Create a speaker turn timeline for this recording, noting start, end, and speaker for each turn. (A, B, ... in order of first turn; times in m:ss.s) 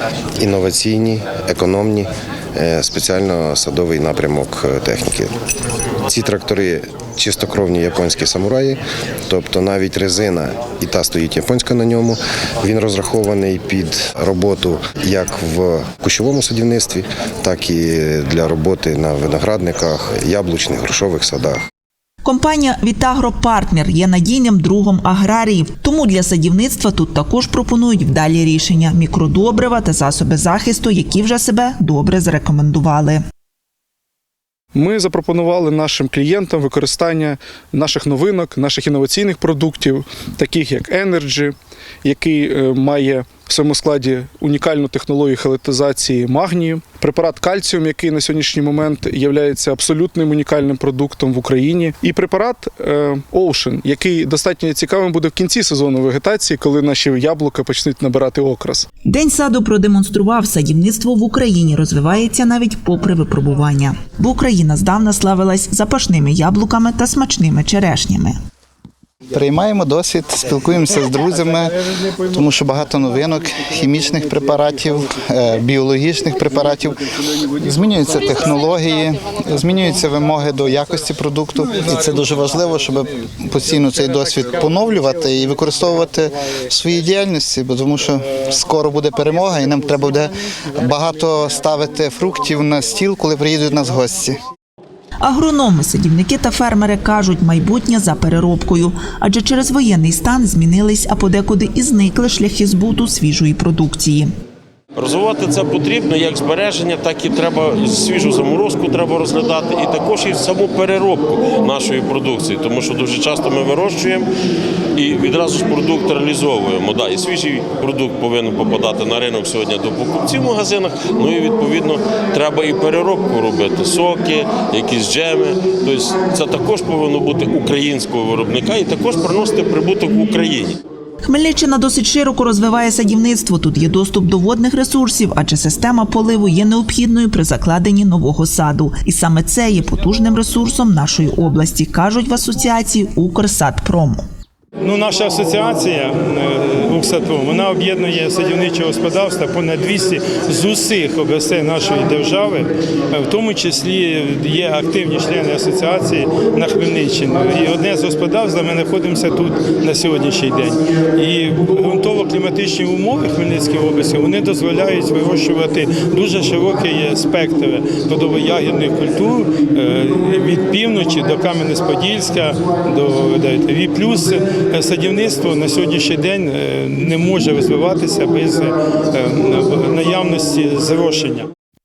0:00.4-0:05.3 A
0:06.1-0:21.6 A
0:22.2-0:33.2 B
0:34.8-0:58.9 C
0:59.1-1:08.4 B
1:09.3-1:34.4 D
1:35.2-1:44.3 B
1:45.0-1:54.3 E
1:55.0-2:10.8 E
2:11.2-2:24.2 B
2:24.8-3:01.5 F